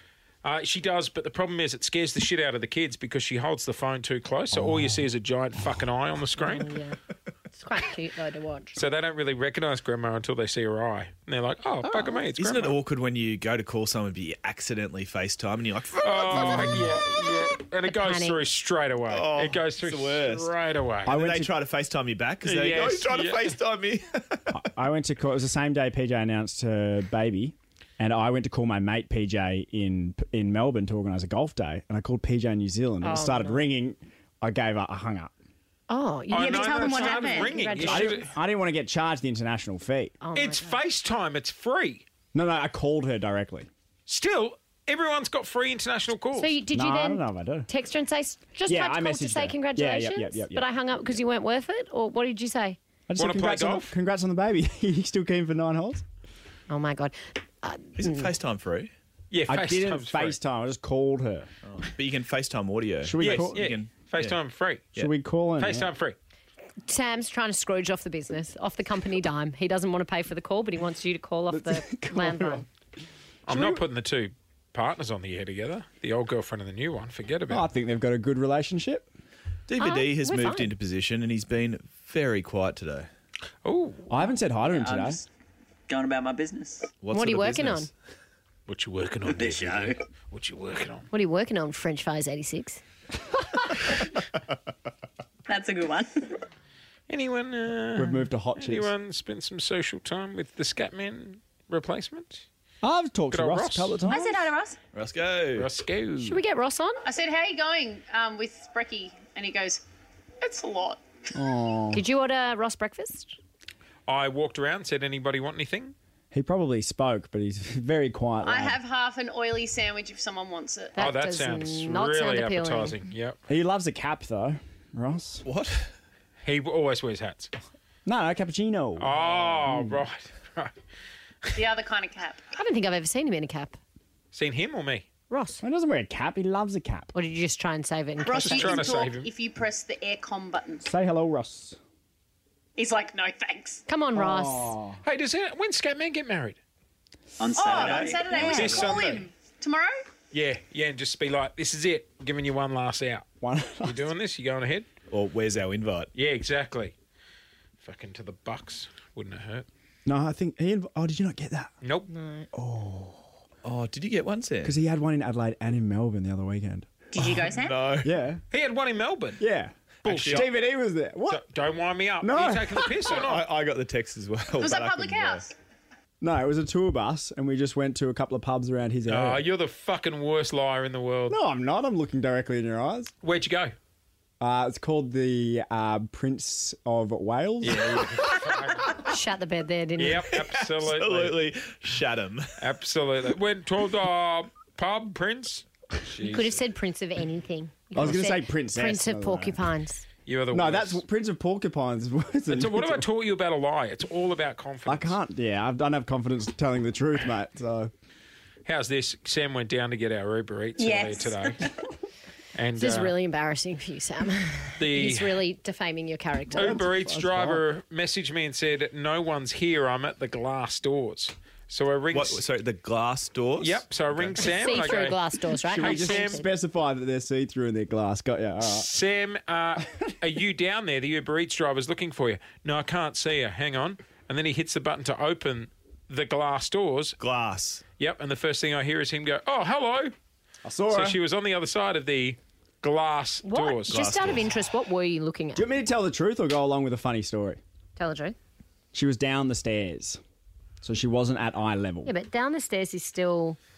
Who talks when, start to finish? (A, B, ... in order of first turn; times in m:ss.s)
0:00.4-0:06.7 A
0:04.5-0:05.1 B
0:06.4-0:07.0 C
0:07.6-0:08.8 C
0:08.8-0:12.8 A
0:12.4-0:16.8 D
0:16.0-0:21.2 A
0:17.9-0:18.4 C
0:19.1-0:20.5 D
0:21.1-0:21.5 B
0:21.1-0:24.6 D
0:22.4-0:23.6 A
0:24.5-0:35.3 B
0:33.0-0:33.6 C
0:35.9-0:38.2 C
0:36.3-0:38.3 A
0:36.3-0:37.7 E
0:37.8-0:40.2 B
0:40.2-0:40.8 C
0:40.4-0:42.0 A
0:42.3-0:43.7 B
0:44.1-0:46.5 A
0:46.4-0:52.8 C
0:46.7-0:47.7 B
0:48.7-0:50.6 B
0:53.1-0:56.0 B
0:53.2-0:53.9 A
0:56.7-0:58.3 C
0:58.0-0:58.9 D
0:59.3-1:00.4 A
0:59.5-1:01.5 B
1:01.6-1:04.4 D
1:03.0-1:03.7 B
1:03.2-1:04.9 A
1:05.0-1:05.9 B
1:05.6-1:06.2 A
1:06.8-1:12.6 C
1:11.5-1:12.7 B
1:13.5-1:13.8 B
1:13.5-1:17.7 A
1:17.5-1:19.1 B
1:19.7-1:23.1 D
1:19.8-1:20.7 C
1:23.6-1:24.1 A
1:24.1-1:25.2 B
1:24.7-1:25.2 F
1:25.9-1:26.9 F
1:27.0-1:27.9 D
1:27.1-1:27.9 C
1:28.7-1:31.1 A
1:29.3-1:30.0 F
1:31.1-1:32.8 C
1:35.5-1:36.4 E
1:37.1-1:42.4 A
1:38.0-1:38.9 B
1:42.8-1:44.5 B
1:43.3-1:44.0 A
1:44.1-1:44.8 E
1:44.9-1:45.7 D
1:45.5-1:46.4 A
1:46.2-1:47.0 C
1:47.0-1:49.8 G
1:50.4-1:51.0 G
1:51.3-1:52.0 B
1:51.9-1:53.4 C
1:54.1-1:56.0 A
1:56.3-1:58.8 B
1:58.4-2:01.0 G
2:01.0-2:03.0 C
2:01.0-2:03.4 A
2:03.5-2:05.4 B
2:05.5-2:05.9 D
2:06.4-2:07.5 A
2:08.0-2:10.1 B
2:09.0-2:10.7 A
2:11.6-2:12.4 G
2:12.6-2:13.8 C
2:14.3-2:15.1 A
2:15.3-2:15.6 C
2:15.6-2:17.1 B
2:17.1-2:18.8 C
2:18.2-2:20.9 G
2:18.3-2:19.3 A
2:20.8-2:21.8 B
2:22.8-2:23.8 G
2:23.9-2:24.8 C
2:24.2-2:25.0 B
2:25.0-2:26.6 A
2:27.4-2:28.4 F
2:27.5-2:30.0 G
2:27.8-2:29.0 D
2:28.3-2:29.3 A
2:30.3-2:33.3 A
2:33.4-2:34.1 B
2:33.8-2:34.9 A
2:35.1-2:36.1 D
2:36.2-2:36.9 A
2:37.8-2:39.7 A
2:40.1-2:41.7 B
2:41.8-2:42.1 A
2:42.1-2:42.5 C
2:42.5-2:43.3 B
2:43.6-2:44.8 D
2:44.6-2:46.9 B
2:47.1-2:47.9 E
2:47.5-2:48.1 D
2:48.0-2:48.4 B
2:48.5-2:49.4 A
2:49.4-2:49.8 B
2:50.0-2:50.5 A
2:50.1-2:50.5 D
2:50.3-2:51.4 B
2:51.3-2:53.5 A
2:52.2-2:53.1 B
2:53.1-2:55.5 D
2:54.6-2:55.5 G
2:56.2-2:59.5 B
2:59.1-3:01.4 A
3:01.3-3:03.1 B
3:03.2-3:03.8 A
3:04.4-3:08.3 B
3:07.6-3:09.0 A
3:09.0-3:10.3 C
3:10.0-3:11.4 A
3:10.3-3:12.6 D
3:12.6-3:16.6 A
3:16.2-3:20.0 C
3:17.9-3:19.6 B
3:20.3-3:21.0 A
3:20.5-3:23.1 B
3:22.5-3:25.2 A
3:24.9-3:27.9 B
3:28.6-3:31.6 A
3:30.8-3:31.7 E
3:32.6-3:33.2 A
3:32.8-3:37.1 C
3:34.8-3:35.4 A
3:36.5-3:37.6 B
3:36.5-3:42.4 A
3:42.1-3:44.8 D
3:43.6-3:45.2 A
3:44.4-3:46.5 C
3:45.6-3:48.9 B
3:45.8-3:46.4 A
3:48.6-3:57.2 A
3:57.2-3:57.8 D
3:58.0-4:00.1 A
4:00.6-4:01.2 B
4:00.9-4:04.0 A
4:03.4-4:05.7 C
4:03.9-4:04.5 D
4:05.6-4:07.6 B
4:08.0-4:08.4 C
4:08.9-4:10.2 B
4:10.8-4:12.1 B
4:12.0-4:13.6 C